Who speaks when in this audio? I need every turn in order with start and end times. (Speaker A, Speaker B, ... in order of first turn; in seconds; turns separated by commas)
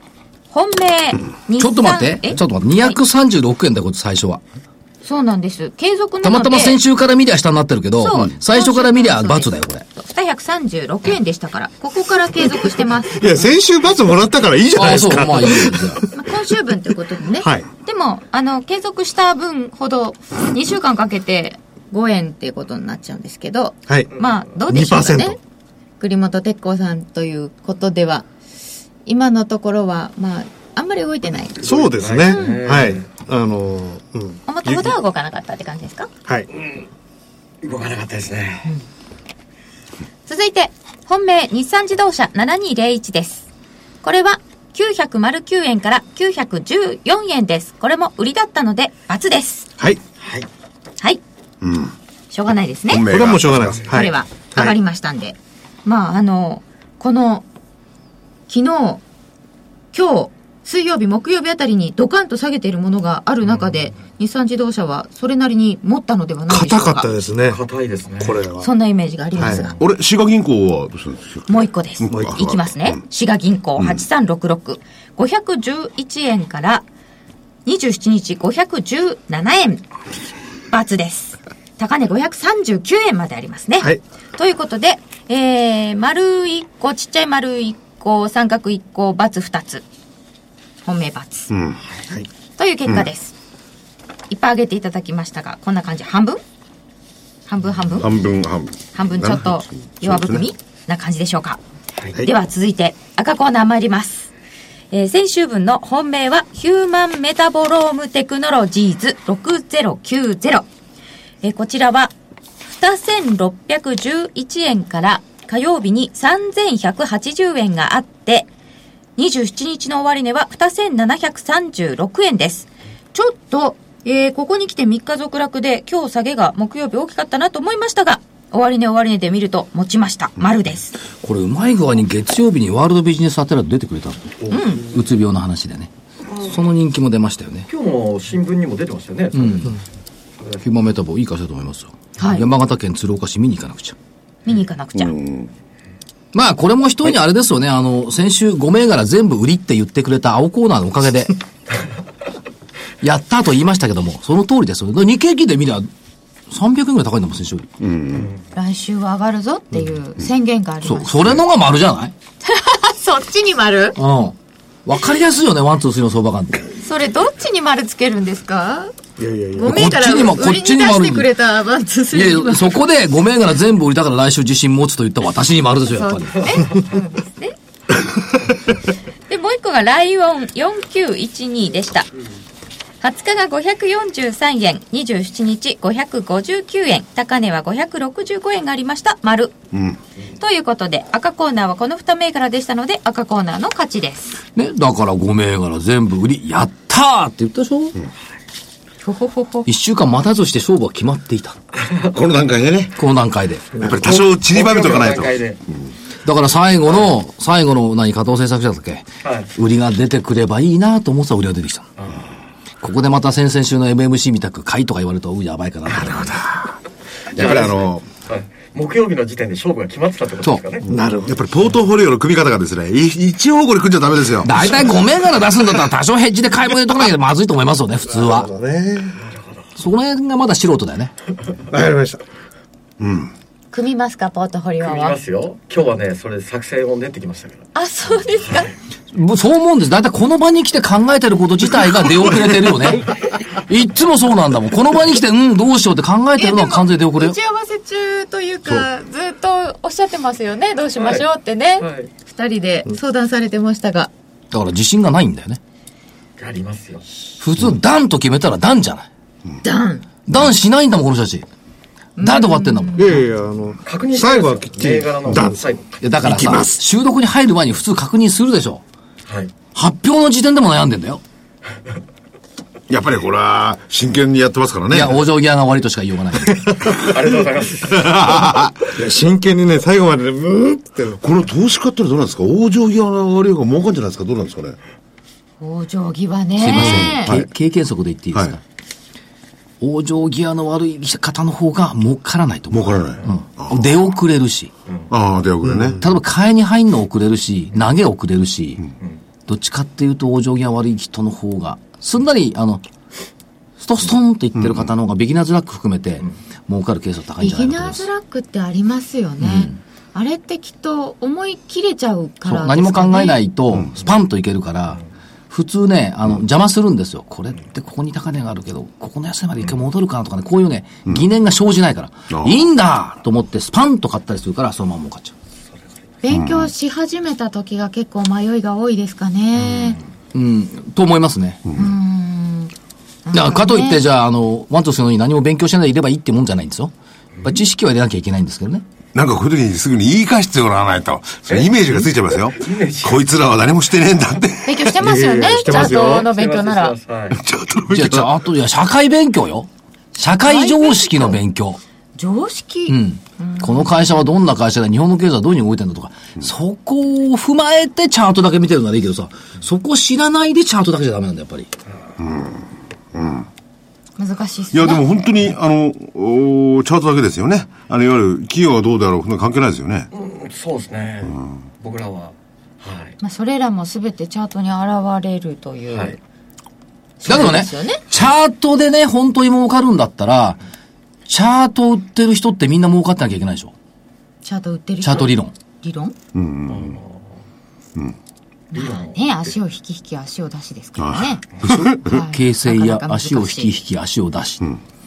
Speaker A: 0.5-3.0, Speaker B: 1.6-4.4, Speaker A: 5.0-6.8, Speaker B: 6.2-9.8, Speaker A: 8.0-13.3, Speaker C: 13.1-16.2, Speaker B: 14.8-16.0, Speaker A: 16.1-25.4, Speaker C: 17.4-17.7, Speaker C: 23.9-24.1, Speaker C: 24.7-25.4, Speaker A: 26.0-28.3, Speaker A: 29.1-31.6, Speaker D: 31.6-33.1, Speaker C: 31.6-34.9, Speaker A: 32.3-32.7, Speaker A: 34.5-36.1, Speaker D: 37.6-38.7, Speaker A: 40.3-43.5, Speaker A: 44.0-49.7, Speaker D: 50.2-50.5, Speaker E: 51.6-52.0, Speaker A: 52.3-53.1, Speaker E: 52.9-54.0, Speaker C: 53.1-54.8, Speaker A: 53.9-57.5, Speaker A: 58.5-59.0, Speaker A: 59.9-67.1, Speaker C: 66.5-67.6, Speaker D: 67.5-68.4, Speaker C: 68.2-68.7, Speaker A: 68.6-69.8, Speaker C: 69.4-69.7, Speaker D: 69.4-69.7, Speaker E: 69.8-73.0, Speaker A: 71.5-76.8, Speaker C: 72.1-72.3, Speaker E: 73.8-74.0, Speaker A: 77.7-79.9, Speaker A: 80.7-89.8, Speaker A: 90.8-91.5, Speaker E: 91.5-91.8, Speaker A: 92.6-93.3, Speaker A: 94.3-96.4, Speaker A: 97.5-98.1, Speaker E: 98.0-100.5, Speaker A: 98.9-101.6, Speaker A: 102.2-104.3, Speaker A: 104.9-110.7, Speaker A: 111.4-112.1, Speaker A: 112.6-118.5, Speaker A: 119.2-130.9, Speaker B: 131.2-135.9, Speaker A: 134.5-134.9, Speaker B: 136.4-137.7, Speaker D: 137.7-139.8, Speaker B: 139.3-139.8, Speaker B: 140.6-144.0, Speaker A: 142.2-142.5, Speaker A: 144.5-145.2, Speaker E: 144.9-145.5, Speaker B: 146.3-151.3, Speaker B: 153.0-155.9, Speaker B: 156.5-157.7, Speaker E: 157.8-158.3, Speaker A: 158.6-161.4, Speaker B: 160.8-162.1, Speaker A: 162.4-164.0, Speaker B: 164.0-166.7, Speaker A: 166.8-168.9, Speaker C: 169.2-169.9, Speaker A: 169.6-172.8, Speaker B: 169.6-171.3, Speaker B: 172.1-176.7, Speaker A: 175.9-177.6, Speaker A: 179.3-182.1, Speaker A: 183.0-189.5, Speaker E: 189.7-190.0, Speaker A: 190.4-194.4, Speaker B: 194.6-198.0, Speaker A: 199.0-199.7, Speaker B: 199.7-201.6, Speaker E: 202.1-203.0, Speaker B: 203.0-203.7, Speaker E: 203.8-205.9, Speaker D: 204.1-205.6, Speaker B: 206.2-211.9, Speaker D: 209.2-209.5, Speaker D: 212.0-212.3, Speaker B: 212.8-216.7, Speaker E: 217.3-218.1, Speaker D: 217.3-220.9, Speaker C: 220.9-221.4, Speaker E: 221.2-224.9, Speaker B: 224.4-228.5, Speaker C: 228.1-229.1, Speaker B: 229.8-231.1, Speaker C: 231.7-232.2, Speaker E: 233.0-233.3, Speaker A: 233.7-235.2, Speaker D: 234.8-237.7, Speaker A: 237.8-238.7, Speaker B: 239.1-247.4, Speaker A: 246.4-254.1, Speaker D: 251.8-252.1, Speaker B: 254.5-255.6, Speaker D: 256.4-257.1, Speaker B: 257.4-259.1, Speaker A: 259.6-260.1, Speaker B: 260.3-261.5, Speaker A: 262.2-263.2, Speaker B: 262.2-263.1, Speaker C: 262.9-265.7, Speaker D: 263.8-266.1, Speaker B: 266.0-268.8, Speaker C: 266.2-266.8, Speaker D: 269.3-269.5, Speaker B: 269.7-271.2, Speaker E: 272.9-275.2, Speaker B: 274.9-276.6, Speaker D: 276.9-278.1, Speaker E: 278.0-278.8, Speaker C: 278.9-281.2, Speaker E: 281.2-284.8, Speaker A: 285.6-287.3, Speaker B: 286.6-288.6, Speaker E: 286.7-287.5, Speaker E: 288.3-288.6, Speaker B: 289.8-294.7, Speaker E: 292.7-293.9, Speaker E: 295.1-296.0, Speaker C: 295.7-296.0, Speaker B: 296.0-298.8, Speaker B: 299.5-302.8, Speaker B: 303.8-308.1, Speaker E: 304.6-304.9, Speaker A: 307.4-313.4, Speaker B: 309.4-309.8, Speaker B: 312.5-325.3, Speaker E: 322.3-322.7, Speaker A: 326.2-330.0, Speaker E: 326.3-326.7, Speaker B: 330.3-331.6, Speaker E: 331.6-331.9, Speaker A: 331.8-332.7, Speaker A: 333.3-334.0, Speaker B: 333.3-336.9, Speaker B: 337.4-338.8, Speaker E: 339.1-345.1, Speaker D: 341.5-341.8, Speaker D: 342.5-343.3, Speaker A: 344.6-347.0, Speaker C: 345.0-346.3, Speaker D: 345.6-347.4, Speaker E: 347.3-348.4, Speaker B: 347.9-351.8, Speaker A: 350.4-351.4, Speaker A: 352.2-354.3, Speaker B: 352.9-361.7, Speaker E: 362.2-363.5, Speaker A: 364.2-365.3, Speaker E: 364.7-370.1, Speaker D: 370.1-373.2, Speaker A: 373.2-376.2, Speaker D: 375.9-376.2, Speaker A: 377.2-378.0, Speaker B: 377.2-380.6, Speaker B: 381.3-383.7, Speaker A: 384.4-386.1, Speaker B: 385.0-385.5, Speaker E: 386.3-387.0, Speaker D: 386.7-387.2, Speaker A: 388.7-391.4, Speaker D: 388.7-389.5, Speaker E: 391.0-392.0, Speaker B: 391.6-394.6, Speaker A: 392.0-393.8